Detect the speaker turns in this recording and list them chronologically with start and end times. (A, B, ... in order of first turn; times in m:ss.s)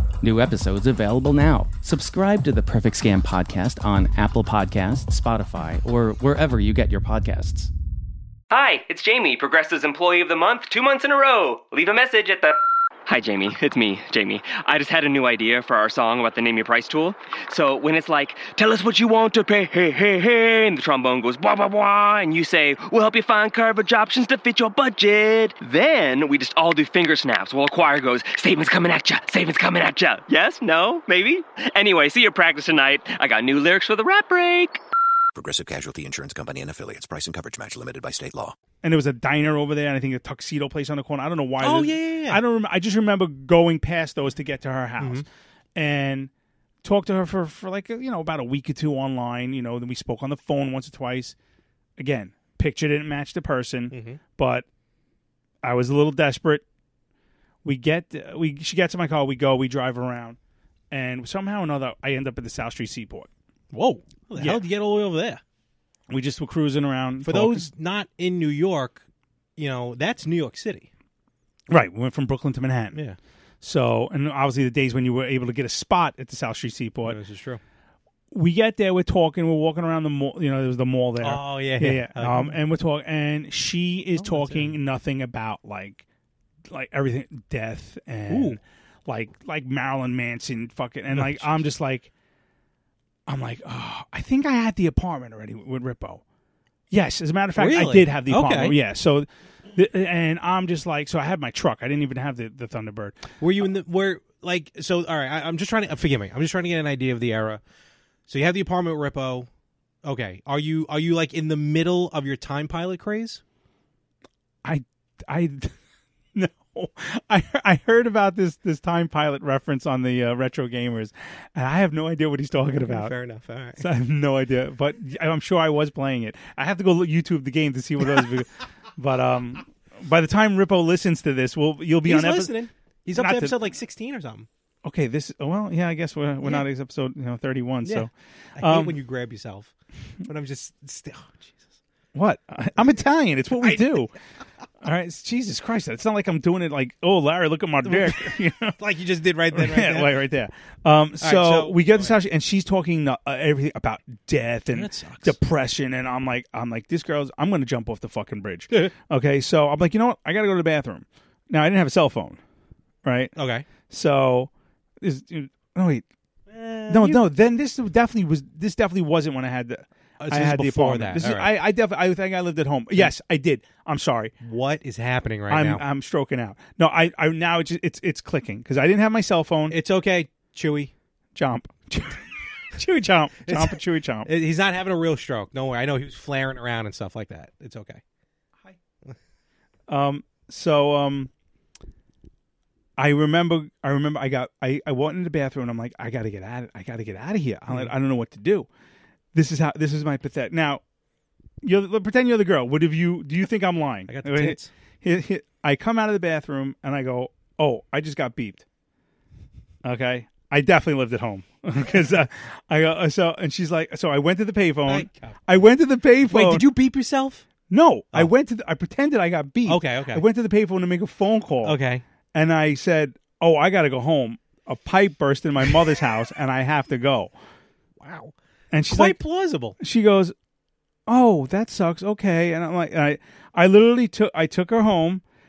0:00.2-0:07.7 A
0:08.5-0:34.8 B
0:35.3-0:38.6 C
0:38.8-0:46.3 D
0:41.6-0:42.4 E
0:45.0-0:45.2 E
0:46.8-0:51.4 D
0:52.0-0:54.6 D
0:53.9-0:54.2 E
0:55.6-0:56.6 D
0:57.6-1:00.4 D
1:00.9-1:03.3 D
1:03.7-1:05.4 E
1:04.4-1:04.6 D
1:06.1-1:07.7 D
1:07.2-1:09.0 E
1:09.6-1:10.9 E
1:11.7-1:13.0 D
1:12.9-1:13.2 E
1:13.6-1:17.2 D
1:17.0-1:17.6 E
1:18.3-1:26.0 D
1:21.2-1:22.6 E
1:24.2-1:24.8 E
1:26.7-1:32.1 D
1:28.3-1:28.6 E
1:31.1-1:31.7 E
1:33.3-1:36.2 D
1:36.9-1:43.3 D
1:37.5-1:38.8 E
1:43.4-1:47.6 E
1:48.3-1:49.5 E
1:50.0-1:53.4 E
1:54.6-1:55.7 D
1:56.3-2:03.1 D
2:02.8-2:03.8 E
2:03.8-2:12.5 D
2:12.0-2:14.5 E
2:13.1-2:13.6 D
2:14.8-2:19.0 D
2:17.8-2:19.7 E
2:20.2-2:21.8 E
2:22.1-2:24.1 D
2:23.5-2:24.0 E
2:24.8-2:28.8 D
2:27.8-2:30.2 E
2:29.5-2:42.4 D
2:31.2-2:32.1 E
2:34.7-2:35.4 E
2:43.0-2:43.3 D
2:43.4-2:43.7 E
2:43.9-2:46.0 D
2:46.5-2:47.2 E
2:46.9-2:54.3 D
2:50.2-2:51.6 E
2:54.4-2:55.8 E
2:55.5-2:59.8 D
2:59.7-3:00.9 E
3:01.3-3:04.3 D
3:03.4-3:08.0 E
3:09.9-3:11.3 D
3:13.0-3:18.7 D
3:19.3-3:20.8 D
3:21.6-3:28.6 D
3:24.1-3:24.7 E
3:29.8-3:36.6 D
3:34.8-3:35.4 E
3:36.2-3:37.5 E
3:37.7-3:41.8 D
3:39.6-3:40.2 E
3:41.6-3:42.0 E
3:42.3-3:47.3 D
3:48.0-3:48.3 E
3:48.7-3:49.2 D
3:48.9-3:49.8 E
3:49.8-3:50.3 D
3:51.1-3:55.2 D